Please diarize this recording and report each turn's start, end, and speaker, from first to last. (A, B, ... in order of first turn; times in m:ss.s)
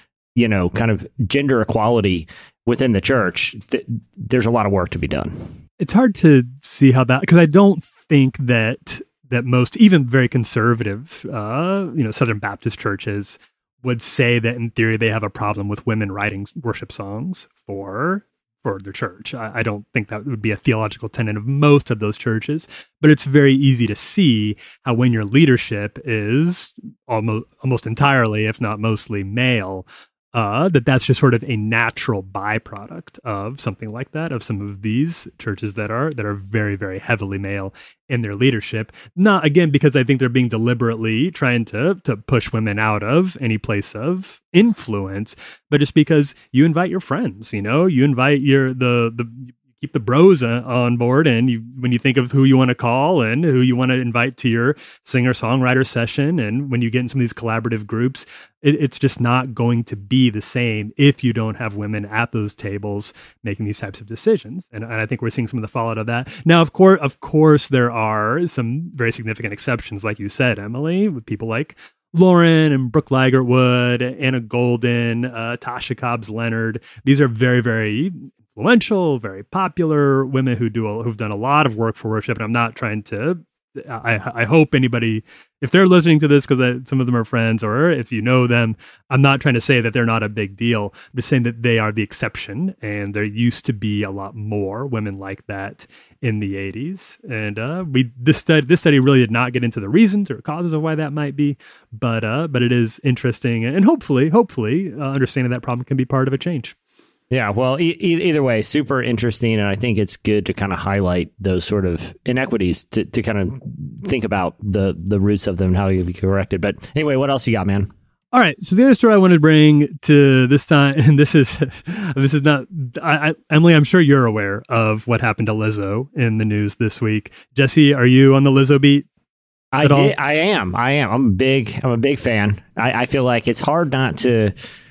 0:00.4-0:05.5 A
0:05.8-1:46.8 B
1:47.3-1:57.9 A
1:58.3-2:09.0 B
2:09.7-2:14.6 A
2:09.8-2:10.1 B